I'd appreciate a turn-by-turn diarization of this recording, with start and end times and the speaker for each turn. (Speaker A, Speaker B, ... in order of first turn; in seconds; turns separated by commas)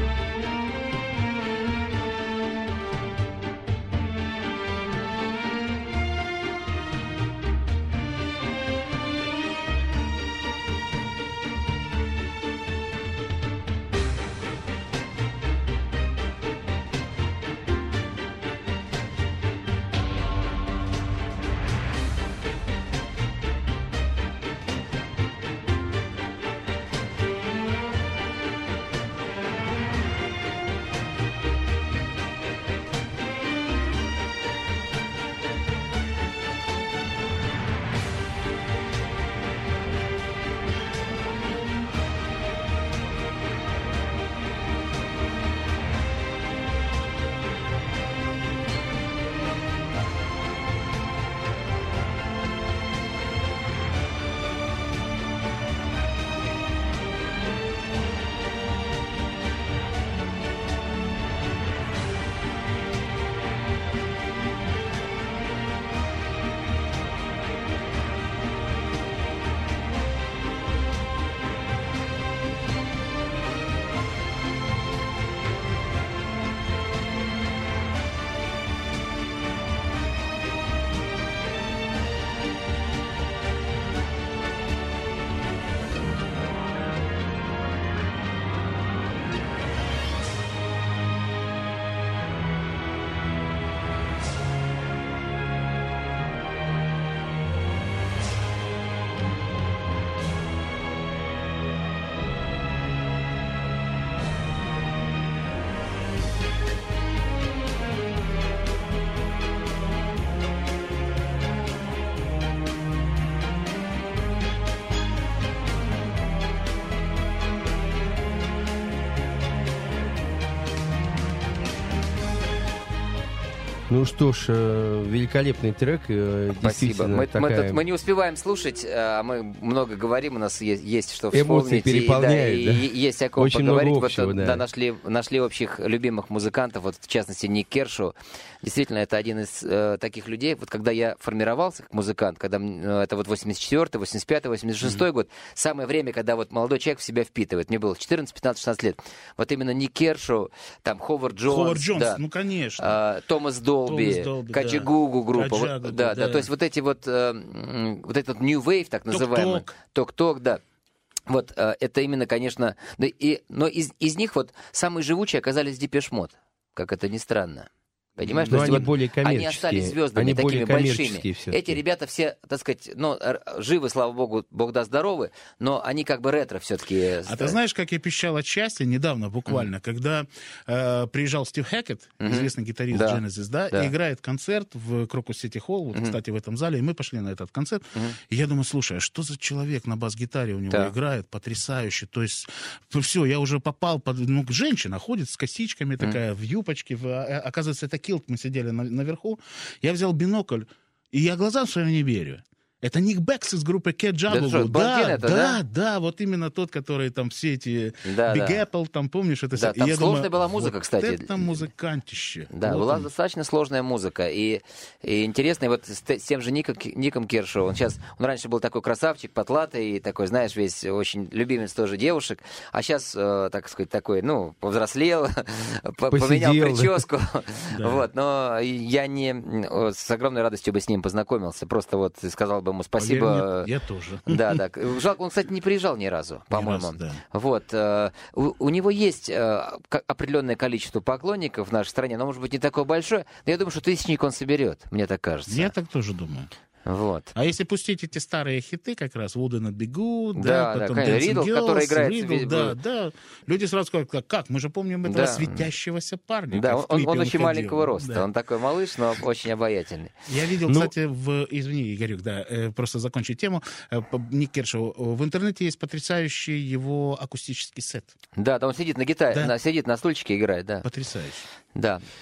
Speaker A: 123.9-127.8, Speaker B: 126.6-152.2, Speaker A: 131.3-134.6, Speaker C: 151.5-153.0, Speaker B: 152.8-160.6, Speaker C: 153.9-156.5, Speaker C: 159.1-159.8, Speaker B: 161.3-177.6, Speaker C: 168.2-168.9, Speaker A: 168.5-171.8, Speaker C: 177.3-213.1, Speaker B: 182.2-183.9, Speaker B: 204.3-205.6, Speaker B: 208.1-208.6, Speaker B: 209.6-211.7, Speaker B: 212.5-233.7, Speaker A: 226.1-227.0, Speaker C: 227.8-228.1, Speaker C: 233.0-234.6, Speaker B: 234.3-245.7, Speaker C: 236.5-237.2, Speaker C: 245.5-246.5, Speaker B: 246.9-247.3, Speaker C: 247.3-258.3, Speaker B: 250.4-252.8, Speaker B: 255.1-255.6, Speaker B: 256.5-260.1, Speaker C: 260.3-268.2, Speaker B: 268.4-270.9, Speaker C: 270.8-271.5, Speaker B: 271.8-272.0